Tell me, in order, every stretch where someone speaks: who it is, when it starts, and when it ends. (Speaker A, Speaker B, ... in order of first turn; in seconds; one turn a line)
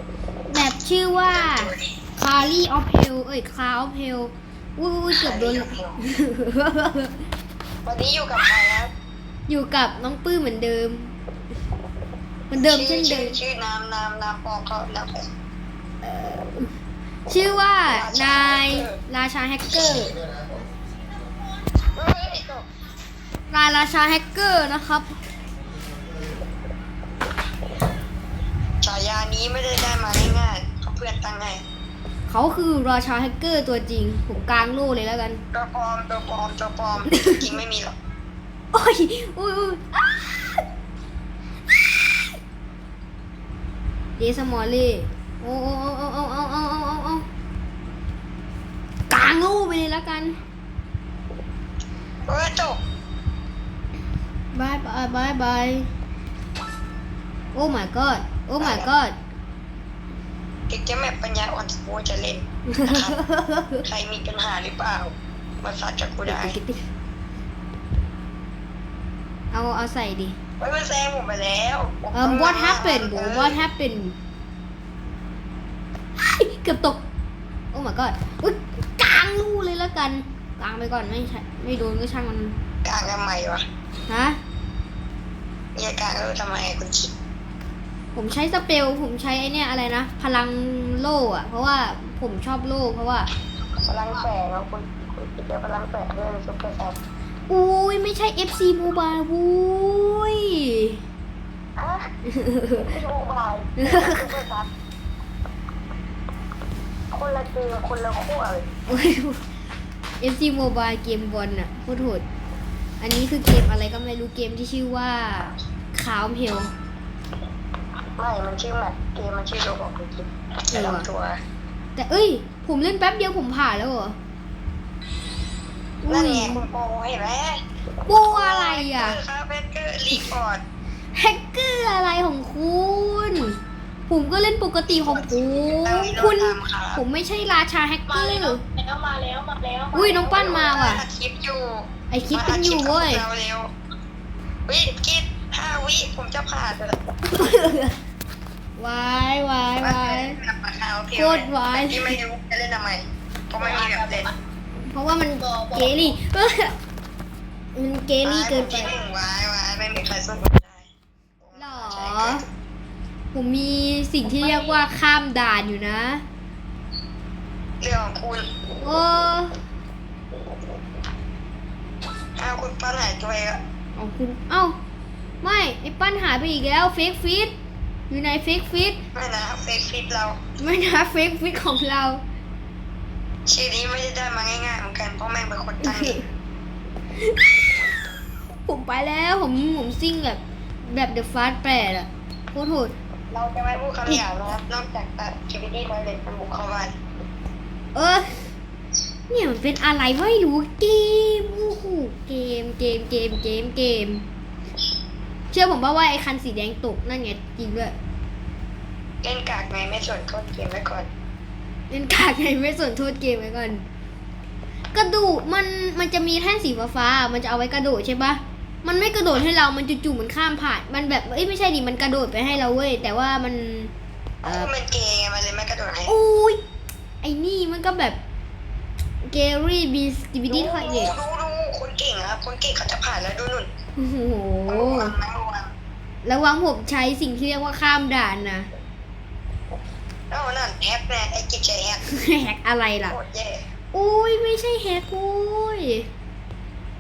Speaker A: 0.5-7.2
Speaker B: 1.2-1.9
Speaker B: 5.1-6.0
Speaker B: 7.8-8.9
Speaker A: 9.5-11.1
Speaker A: 12.5-13.4
Speaker B: 12.5-15.3
Speaker A: 16.0-16.7
Speaker A: 17.3-20.2
Speaker B: 17.9-19.0
Speaker B: 21.9-22.6
Speaker A: 23.5-25.1
Speaker B: 28.8-31.6
Speaker A: 32.3-35.4
Speaker B: 35.5-37.9
Speaker A: 37.1-37.4
Speaker A: 38.7-40.6
Speaker A: 41.7-42.4
Speaker A: 44.2-47.2
Speaker A: 49.1-50.4
Speaker B: 52.3-52.8
Speaker A: 54.5-55.9
Speaker A: 57.5-59.1
Speaker B: 58.6-58.9
Speaker B: 60.7-63.1
Speaker A: 62.7-63.8
Speaker B: 63.8-66.6
Speaker A: 66.2-66.8
Speaker A: 69.5-70.4
Speaker B: 70.6-73.6
Speaker A: 72.1-74.2
Speaker A: 76.2-77.0
Speaker A: 77.7-82.6
Speaker B: 82.8-83.6
Speaker A: 84.1-84.4
Speaker B: 85.7-87.1
Speaker A: 88.1-93.3
Speaker B: 93.8-97.0
Speaker A: 97.5-101.0
Speaker B: 101.8-102.1
Speaker A: 102.3-102.9
Speaker B: 102.8-104.7
Speaker A: 103.8-104.3
Speaker B: 107.1-108.7
Speaker A: 108.9-109.4
Speaker A: 110.2-112.2
Speaker A: 113.0-116.7
Speaker B: 118.2-121.4
Speaker A: 120.7-121.1
Speaker A: 122.0-124.2
Speaker A: 126.0-126.6
Speaker B: 126.1-130.6
Speaker A: 128.1-129.2
Speaker A: 131.1-138.6
Speaker B: 134.9-137.0
Speaker C: 138.1-140.3
Speaker A: 139.9-141.0
Speaker B: 139.9-143.7
Speaker A: 142.1-143.2
Speaker B: 144.7-147.5
Speaker A: 147.2-148.0
Speaker A: 148.8-150.4
Speaker B: 149.8-154.3
Speaker A: 151.1-152.2
Speaker C: 153.6-154.3
Speaker A: 154.9-156.7
Speaker C: 155.5-156.0
Speaker A: 157.7-158.9
Speaker B: 158.2-162.4
Speaker A: 161.5-162.4
Speaker A: 163.3-166.2
Speaker C: 164.4-164.8
Speaker B: 167.8-168.4
Speaker A: 168.8-169.6
Speaker B: 172.3-173.6
Speaker A: 173.9-174.7
Speaker A: 175.4-177.5
Speaker A: 178.1-179.0
Speaker B: 179.1-180.4
Speaker A: 180.6-182.2
Speaker B: 183.4-186.2
Speaker A: 185.8-186.2
Speaker A: 187.1-187.9
Speaker A: 188.6-192.9
Speaker B: 193.3-196.9
Speaker A: 197.9-198.5
Speaker A: 199.3-204.2
Speaker A: 205.5-207.9
Speaker B: 209.2-211.1
Speaker A: 211.9-213.8
Speaker A: 214.9-223.9
Speaker B: 224.4-226.2
Speaker A: 224.4-224.7
Speaker A: 226.1-226.6
Speaker A: 227.2-228.2
Speaker A: 229.2-231.1
Speaker B: 230.5-233.7
Speaker A: 234.0-235.1
Speaker B: 234.7-235.7
Speaker A: 236.2-238.7
Speaker B: 240.3-242.0
Speaker A: 242.1-243.2
Speaker B: 243.1-243.6
Speaker A: 243.9-246.1